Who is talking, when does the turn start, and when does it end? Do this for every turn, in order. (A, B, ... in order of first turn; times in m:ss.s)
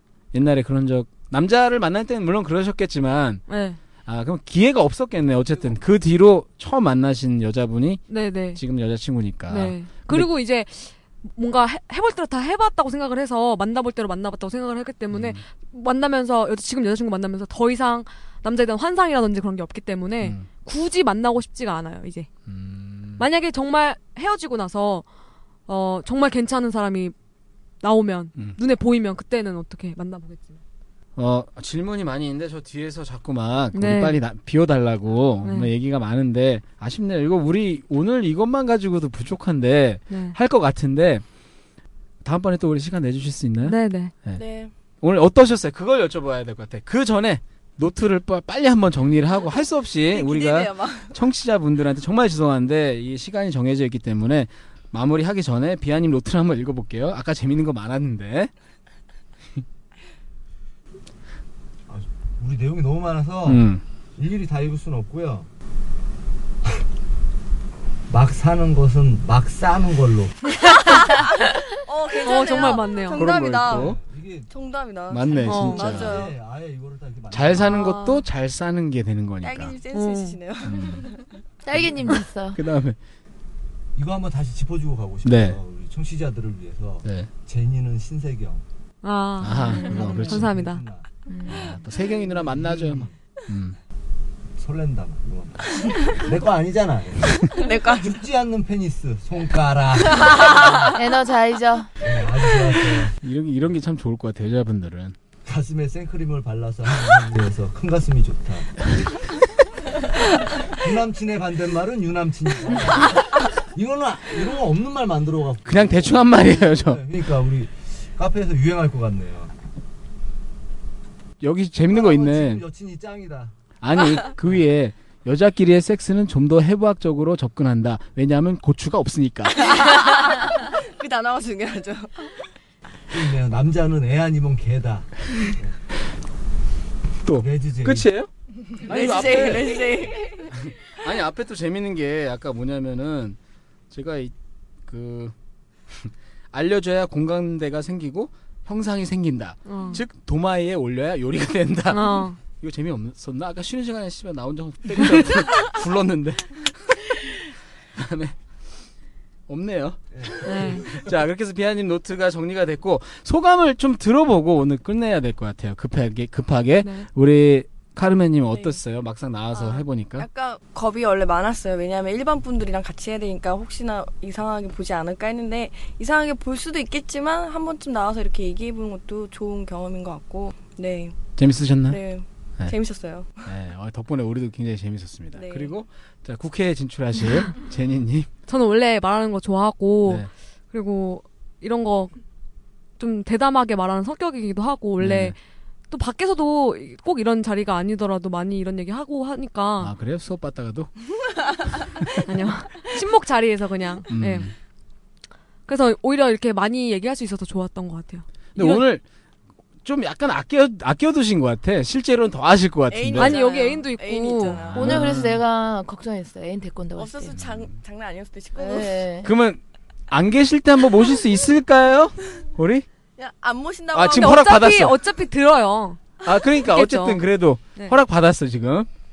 0:00.3-0:03.4 A
0:03.5-0:03.8 B
0:04.1-0:10.3 A
0:08.1-0:08.6 B
0:09.5-0:22.3 B
0:15.1-0:15.4 A
0:20.2-0:20.5 A
0:22.5-0:23.3 A
0:23.2-0:25.1 B
0:25.7-0:27.1 B
0:27.8-0:30.6 B
0:31.2-0:41.2 A
0:33.7-0:34.2 B
0:35.4-0:35.7 B
0:40.1-0:40.4 B
0:42.2-0:44.4 A
0:43.6-0:44.1 B
0:44.4-0:44.7 C
0:45.0-0:58.5 A
0:50.1-0:51.2 C
1:01.9-1:05.5 D
1:03.4-1:03.8 A
1:08.1-1:10.4 D
1:10.8-1:14.0 C
1:12.2-1:13.3 B
1:13.1-1:14.0 A
1:13.6-1:14.5 D
1:14.5-1:16.4 C
1:15.1-1:16.2 A
1:15.4-1:17.8 D
1:15.5-1:16.0 B
1:17.3-1:19.8 A
1:19.4-1:21.4 C
1:19.9-1:20.4 B
1:20.6-1:21.1 A
1:21.6-1:22.6 E
1:22.5-1:23.0 A
1:24.0-1:28.6 D
1:25.2-1:25.6 A
1:27.0-1:27.3 A
1:29.0-1:30.8 B
1:29.4-1:30.5 A
1:29.6-1:30.1 E
1:29.9-1:31.1 D
1:31.3-1:31.7 E
1:31.5-1:33.8 A
1:32.2-1:33.2 D
1:34.6-1:40.9 D
1:35.8-1:36.1 C
1:37.5-1:38.2 C
1:40.3-1:40.6 C
1:40.8-1:41.9 E
1:42.0-1:43.2 D
1:43.2-1:45.2 A
1:45.5-1:48.9 D
1:50.6-1:59.5 D
1:55.7-1:57.0 A
2:01.4-2:02.6 A
2:01.9-2:03.5 D
2:03.8-2:09.9 A
2:09.6-2:12.5 C
2:13.1-2:15.8 D
2:17.2-2:23.4 A
2:17.3-2:18.1 D
2:18.8-2:20.6 C
2:23.9-2:24.3 A
2:24.9-2:25.4 A
2:25.9-2:38.4 A
2:29.7-2:30.0 B
2:31.9-2:32.4 B
2:39.5-2:50.3 A
2:40.2-2:40.4 D
2:40.4-2:40.9 B
2:46.8-2:47.1 B
2:48.5-2:48.8 C
2:49.5-3:01.2 C
3:01.4-3:02.0 A
3:01.9-3:03.3 C
3:03.4-3:08.3 A
3:05.4-3:05.8 C
3:08.5-3:12.2 B
3:13.0-3:15.4 B
3:15.0-3:15.4 A
3:15.9-3:19.9 B
3:19.8-3:20.9 A
3:22.2-3:24.5 B
3:24.1-3:24.5 A
3:25.7-3:28.8 B
3:28.6-3:29.0 A
3:29.8-3:33.4 A
3:32.9-3:35.0 C
3:33.2-3:34.8 B
3:34.7-3:35.4 A
3:34.8-3:37.4 E
3:37.0-3:39.1 C
3:37.4-3:37.7 A
3:38.6-3:39.4 E
3:39.2-3:42.9 A
3:43.2-3:44.6 C
3:43.9-3:45.0 A
3:44.1-3:47.2 B
3:46.2-3:48.9 A